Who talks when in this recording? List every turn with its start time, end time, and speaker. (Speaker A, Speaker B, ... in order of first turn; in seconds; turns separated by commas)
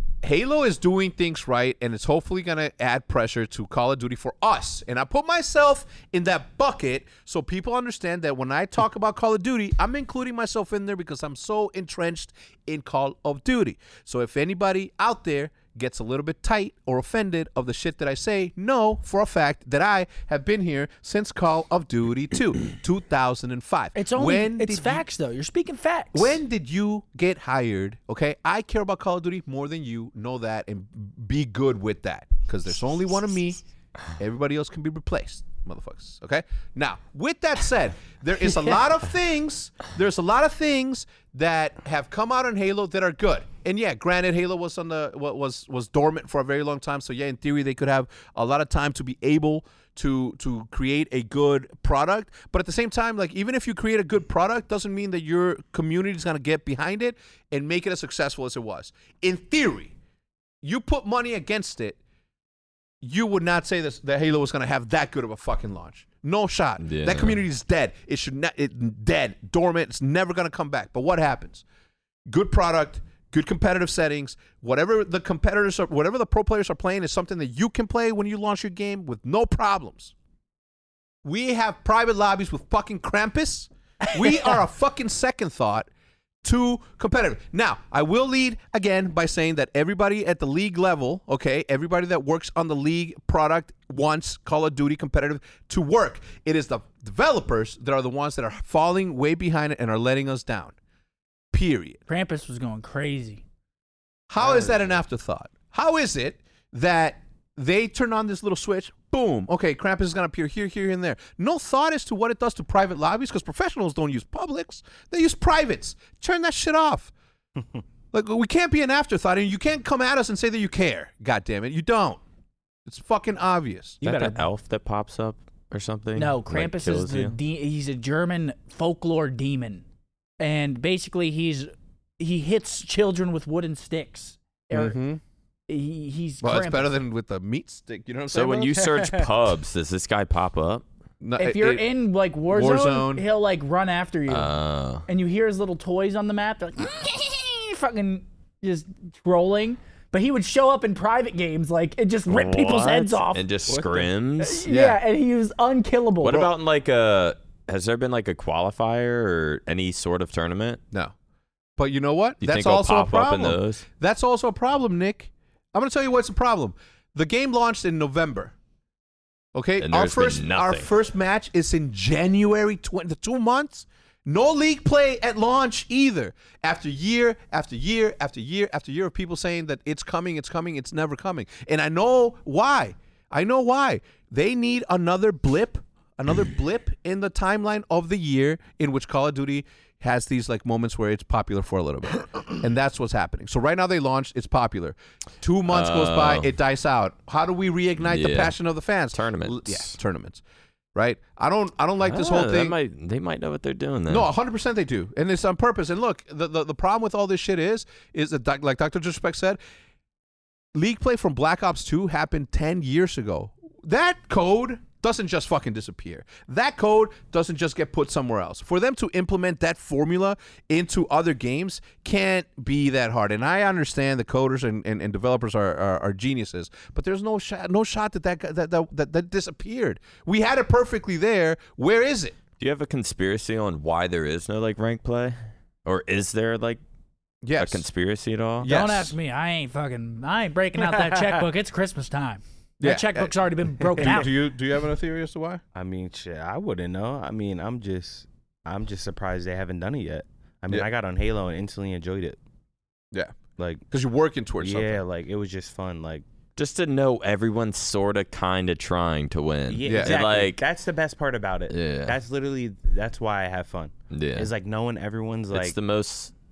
Speaker A: 0.2-25.0, Speaker B: 23.9-26.4, Speaker A: 26.1-33.6, Speaker A: 34.2-60.0, Speaker A: 60.6-62.0, Speaker A: 63.0-71.6, Speaker C: 66.8-67.4, Speaker A: 72.3-80.1, Speaker A: 81.2-85.9, Speaker A: 86.4-100.8, Speaker A: 101.5-102.0, Speaker B: 102.1-103.4, Speaker A: 104.3-117.1, Speaker A: 118.1-122.2, Speaker A: 122.9-124.0, Speaker B: 124.0-124.4, Speaker C: 124.0-127.4, Speaker B: 126.2-129.8, Speaker B: 130.4-135.0, Speaker A: 134.7-135.2, Speaker B: 135.7-136.9, Speaker A: 136.4-139.0, Speaker C: 138.3-140.8, Speaker A: 141.2-141.9, Speaker B: 141.4-144.5, Speaker A: 142.5-143.2, Speaker C: 144.3-145.1, Speaker B: 145.1-153.4, Speaker C: 152.3-154.7, Speaker D: 153.7-154.1, Speaker B: 154.4-156.4, Speaker A: 154.7-155.0, Speaker C: 156.2-160.8, Speaker A: 161.8-168.5, Speaker C: 162.4-163.8, Speaker A: 169.5-200.4, Speaker C: 169.8-170.9, Speaker C: 195.7-196.5, Speaker C: 198.1-198.6, Speaker C: 199.1-200.0, Speaker A: 200.9-202.8, Speaker C: 202.0-204.3, Speaker A: 204.1-209.6, Speaker A: 210.7-232.4, Speaker C: 232.6-236.8, Speaker A: 237.4-237.9, Speaker C: 237.6-238.7, Speaker A: 238.6-239.1, Speaker B: 238.6-244.3, Speaker A: 242.8-245.6, Speaker D: 245.8-252.4, Speaker D: 253.6-253.8, Speaker A: 253.9-255.0, Speaker D: 254.6-256.2, Speaker C: 256.6-260.6, Speaker D: 259.7-265.8, Speaker A: 259.9-260.2, Speaker C: 261.7-262.2, Speaker C: 264.1-264.5, Speaker C: 265.5-266.3